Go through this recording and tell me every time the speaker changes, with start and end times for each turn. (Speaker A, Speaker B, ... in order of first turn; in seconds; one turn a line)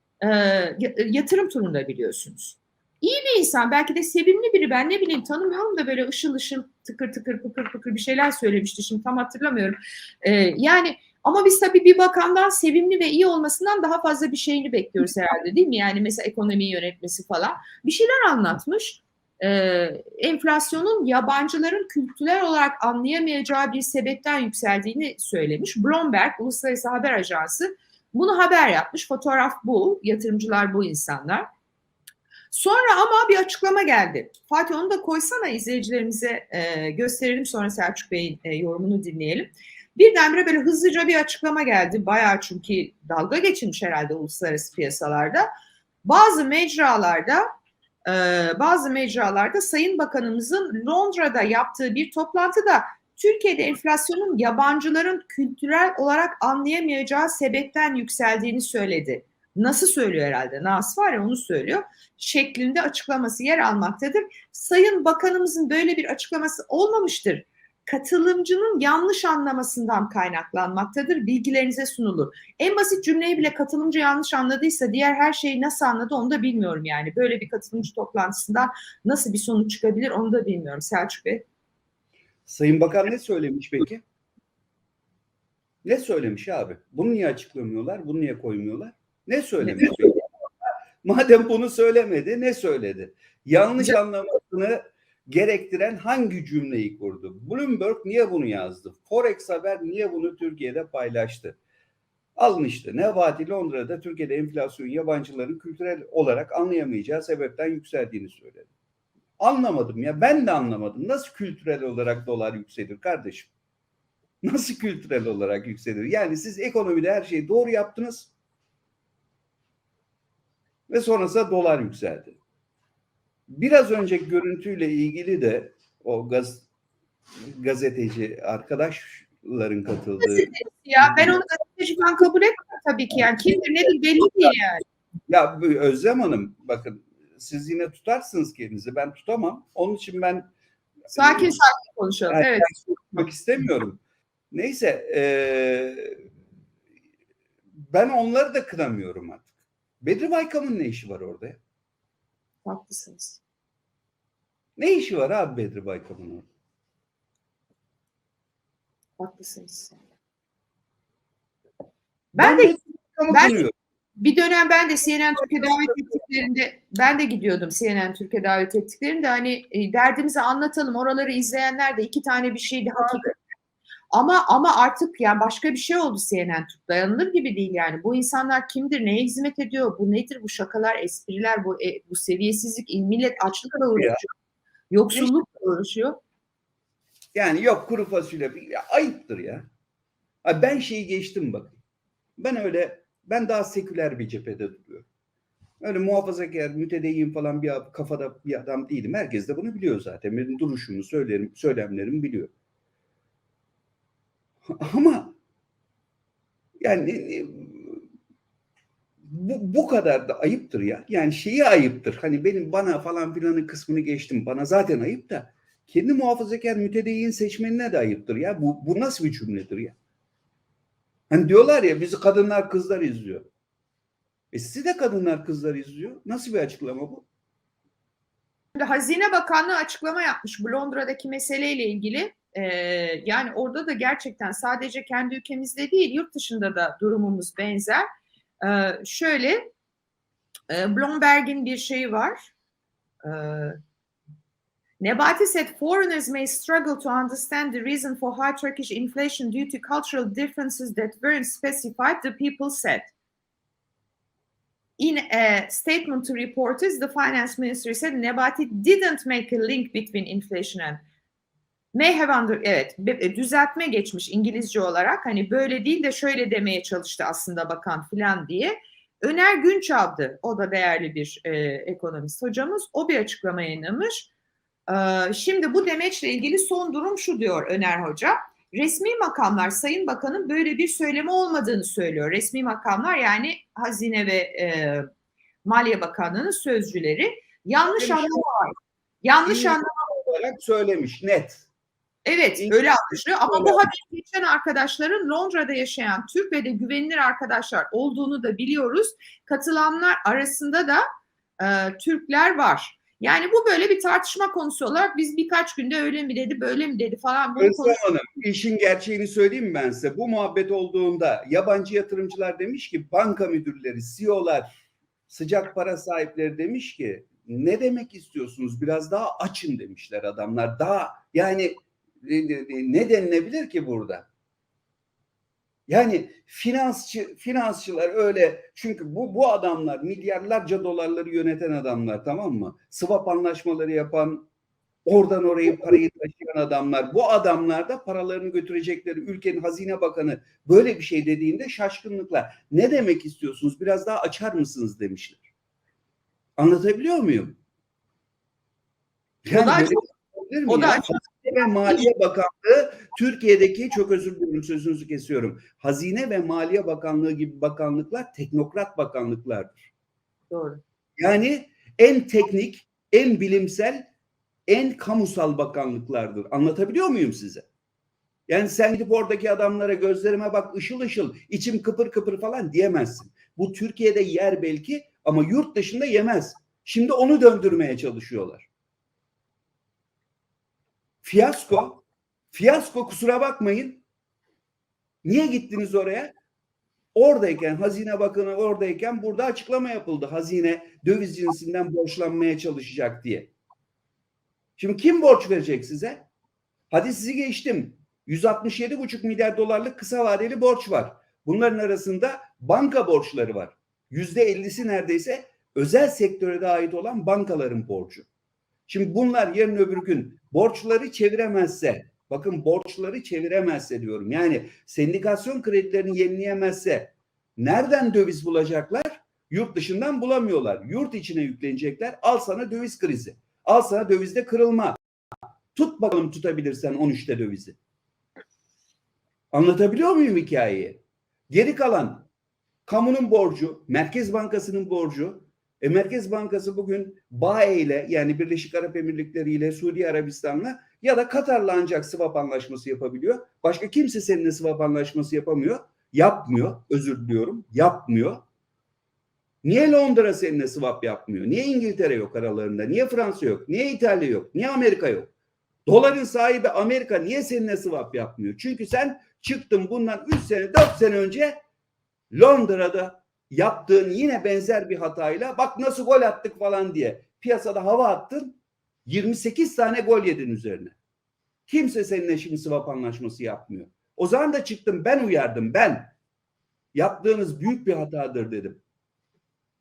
Speaker A: 0.2-31.5
Speaker A: 32.5-45.5
Speaker A: 46.0-47.5
Speaker A: 48.1-81.5
Speaker B: 82.5-84.0
Speaker B: 85.8-90.2
Speaker B: 91.0-101.6
Speaker B: 102.4-108.7
Speaker B: 109.4-113.5
Speaker B: 114.4-118.3
Speaker B: 120.9-122.4
Speaker B: 123.5-126.7
Speaker B: 127.4-131.4
Speaker A: 130.2-134.8
Speaker B: 135.3-140.5
Speaker B: 141.1-141.6
Speaker A: 141.2-142.7
Speaker B: 142.3-144.0
Speaker B: 144.5-146.2
Speaker B: 147.9-149.5
Speaker B: 150.0-151.6
Speaker A: 152.7-153.4
Speaker B: 154.8-156.5
Speaker A: 159.2-160.0
Speaker A: 162.3-162.8
Speaker B: 162.4-163.7
Speaker A: 163.3-163.6
Speaker A: 164.2-173.3
Speaker A: 174.1-184.3
Speaker B: 183.9-184.2
Speaker A: 184.9-186.2
Speaker B: 187.3-189.7
Speaker B: 190.4-191.8
Speaker B: 192.4-195.1
Speaker B: 195.8-202.5
Speaker B: 204.7-205.4
Speaker B: 206.8-208.0
Speaker B: 209.2-220.0
Speaker B: 221.3-223.5
Speaker B: 224.5-227.3
Speaker A: 228.8-238.1
Speaker A: 238.6-239.7
Speaker A: 240.7-242.5
Speaker A: 243.2-243.8
Speaker A: 245.0-253.1
Speaker A: 255.0-261.0
Speaker A: 261.9-274.3
Speaker A: 274.9-285.1
Speaker A: 285.6-289.9
Speaker B: 287.8-288.5
Speaker B: 289.4-291.7
Speaker A: 292.2-301.0
Speaker B: 292.6-293.9
Speaker A: 301.6-308.0
Speaker B: 307.6-314.7
Speaker B: 315.3-324.3
Speaker B: 325.9-334.5
Speaker B: 335.1-345.5
Speaker B: 346.6-347.6
Speaker B: 349.4-359.9
Speaker A: 349.5-350.0
Speaker A: 350.7-351.3
Speaker A: 360.5-360.8
Speaker B: 361.2-364.1
Speaker B: 364.7-367.7
Speaker B: 368.5-378.7
Speaker B: 381.2-384.1
Speaker B: 385.2-386.3
Speaker B: 387.1-393.5
Speaker B: 394.8-396.3
Speaker B: 396.9-408.3
Speaker B: 408.9-425.0
Speaker B: 425.8-427.8
Speaker B: 429.5-432.3
Speaker B: 432.9-448.4
Speaker B: 449.6-455.3
Speaker B: 455.9-461.6
Speaker B: 462.3-471.0
Speaker B: 471.7-476.1
Speaker B: 476.9-478.8